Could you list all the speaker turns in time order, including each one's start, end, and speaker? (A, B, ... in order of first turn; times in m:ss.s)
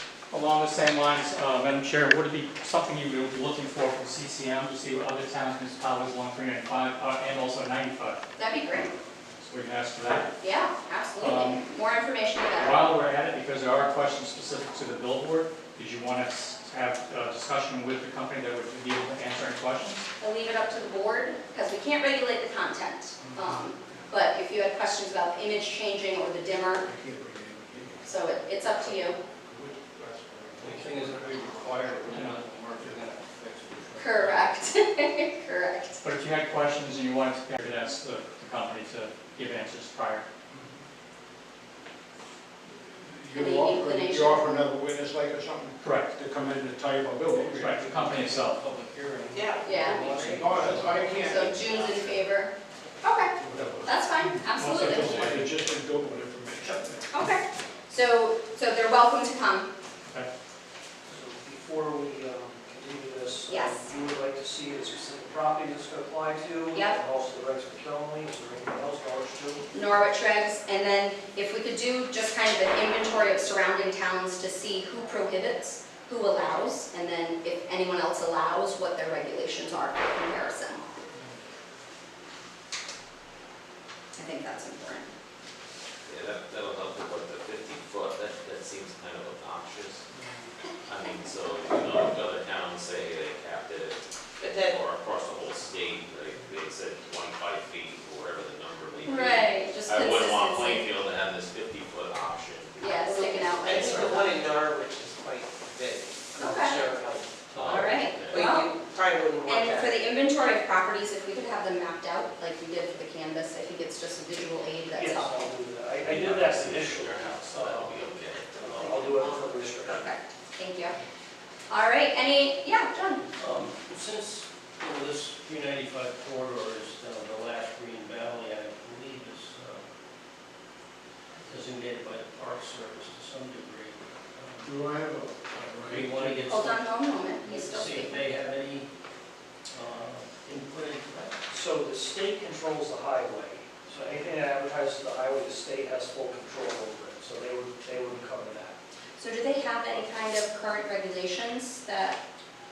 0:00.3-0:08.2 A
0:08.4-0:08.9 B
0:09.5-0:10.3 A
0:10.4-0:12.8 B
0:11.2-0:11.6 A
0:12.6-0:20.1 A
0:20.2-0:26.8 B
0:23.2-0:24.0 C
0:26.8-0:28.1 C
0:28.0-0:29.2 B
0:29.4-0:32.1 C
0:30.6-0:34.6 D
0:34.0-0:36.0 B
0:36.0-0:40.2 A
0:42.9-0:47.8 C
0:43.3-0:44.5 B
0:45.8-0:46.1 A
0:47.3-0:51.2 D
0:47.6-0:48.6 A
0:49.3-0:50.7 E
0:49.6-0:50.0 B
0:50.3-0:51.6 C
0:51.2-0:52.5 B
0:51.3-0:52.2 F
0:53.0-0:55.1 B
0:53.4-0:54.1 C
0:54.6-0:55.5 A
0:54.8-0:57.1 C
0:57.1-0:59.7 B
1:01.1-1:09.6 G
1:03.5-1:03.8 B
1:06.7-1:07.0 B
1:09.7-1:20.9 B
1:24.2-1:25.1 B
1:26.0-1:30.0 F
1:30.8-1:34.0 F
1:34.4-1:34.8 E
1:34.7-1:43.1 F
1:39.0-1:40.9 B
1:42.8-1:44.3 B
1:43.1-1:50.0 E
1:43.7-1:44.2 F
1:46.4-1:46.9 B
1:47.5-1:48.5 F
1:47.6-1:48.7 B
1:49.4-1:55.5 B
1:54.9-1:58.0 G
1:56.0-1:59.9 F
1:58.6-1:59.0 D
1:58.7-2:00.1 G
1:59.9-2:01.0 B
2:01.7-2:03.3 B
2:03.4-2:09.8 D
2:11.5-2:14.7 D
2:14.6-2:16.4 C
2:15.8-2:18.9 D
2:16.5-2:18.2 B
2:19.7-2:21.4 D
2:21.5-2:28.8 G
2:29.2-2:32.2 B